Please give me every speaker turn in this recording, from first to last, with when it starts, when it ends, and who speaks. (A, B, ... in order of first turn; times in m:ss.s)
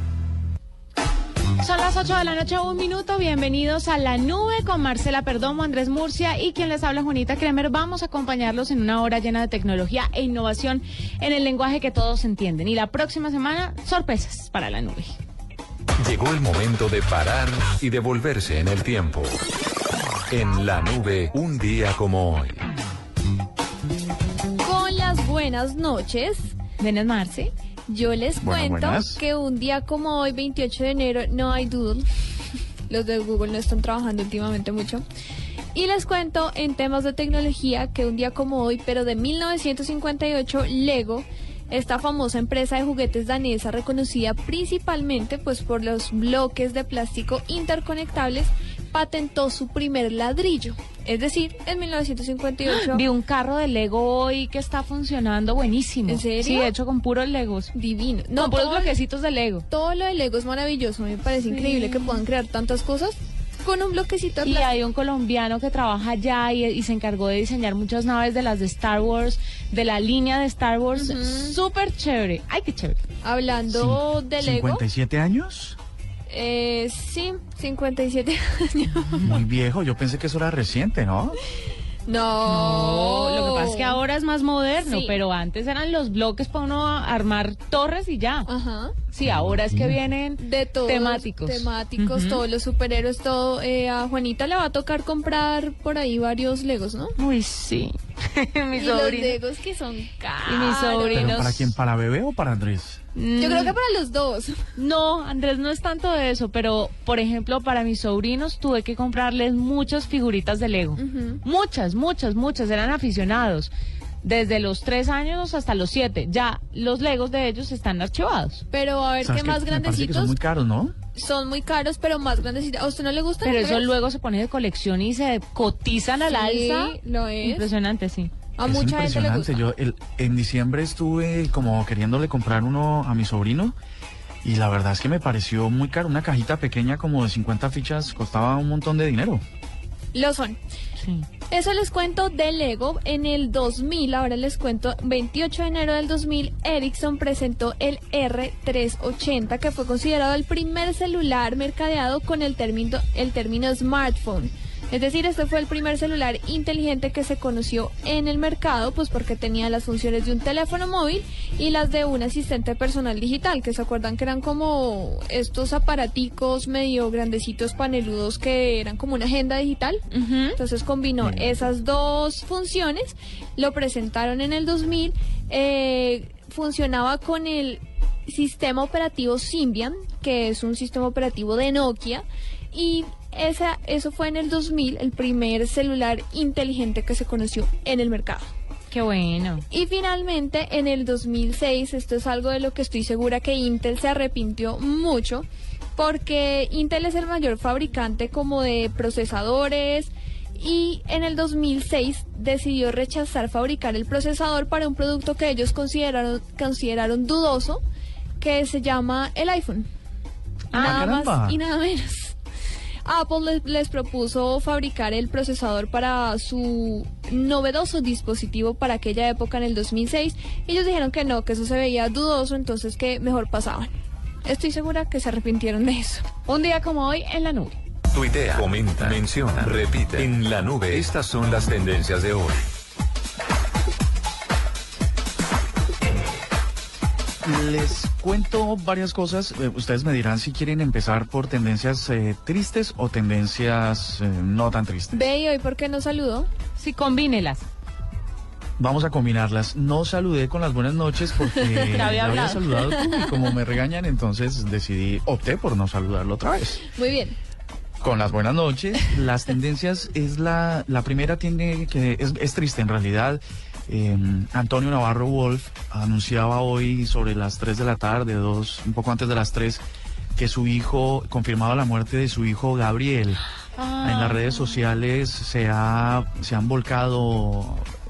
0:01.6-0:15.1 A
0:16.0-0:19.4 B
0:20.3-0:22.6 B
0:24.6-0:26.5 C
0:26.8-0:27.5 A
0:27.9-0:32.1 C
0:28.4-0:29.2 D
0:32.9-0:35.0 C
0:35.8-0:53.0 C
0:52.7-0:57.7 A
0:56.1-0:56.7 C
0:57.7-0:58.9 C
0:58.4-0:59.6 A
0:59.7-1:04.7 C
1:01.5-1:02.2 A
1:04.4-1:13.0 A
1:11.0-1:11.6 C
1:13.2-1:14.8 C
1:13.7-1:15.8 D
1:16.3-1:19.4 C
1:19.2-1:21.4 D
1:22.1-1:24.0 C
1:22.5-1:28.5 A
1:24.8-1:25.1 C
1:28.5-1:29.0 C
1:29.1-1:32.4 A
1:29.3-1:30.0 D
1:30.4-1:37.1 C
1:37.2-1:39.4 A
1:38.8-1:41.5 C
1:40.4-1:41.7 A
1:41.1-1:43.0 D
1:43.2-1:43.8 A
1:43.4-1:44.7 C
1:44.8-1:53.7 A
1:51.0-1:51.4 C
1:54.2-1:58.6 A
1:58.7-2:00.3 C
1:59.2-2:01.0 D
2:01.2-2:03.9 C
2:03.4-2:08.3 A
2:06.3-2:07.7 C
2:08.6-2:09.6 C
2:08.6-2:13.8 D
2:14.4-2:19.4 D
2:20.1-2:20.6 C
2:21.0-2:21.3 A
2:21.5-2:50.0 C
2:50.1-2:50.6 A
2:50.6-3:08.5 C
2:51.2-2:51.7 D
3:08.9-3:09.6 A
3:09.7-3:27.8 C
3:28.4-3:29.9 C
3:30.7-3:31.2 A
3:30.7-3:32.4 C
3:30.8-3:31.6 D
3:33.0-3:43.9 C
3:44.4-3:46.3 C
3:46.5-3:47.8 A
3:48.1-3:52.6 B
3:57.4-4:05.3 D
4:05.1-4:06.5 C
4:06.8-4:07.6 A
4:08.8-4:16.8 D
4:11.8-4:13.3 C
4:12.0-4:12.8 A
4:16.9-4:17.4 C
4:18.0-4:29.8 D
4:30.4-4:33.4 D
4:33.8-4:34.8 A
4:34.0-4:37.9 D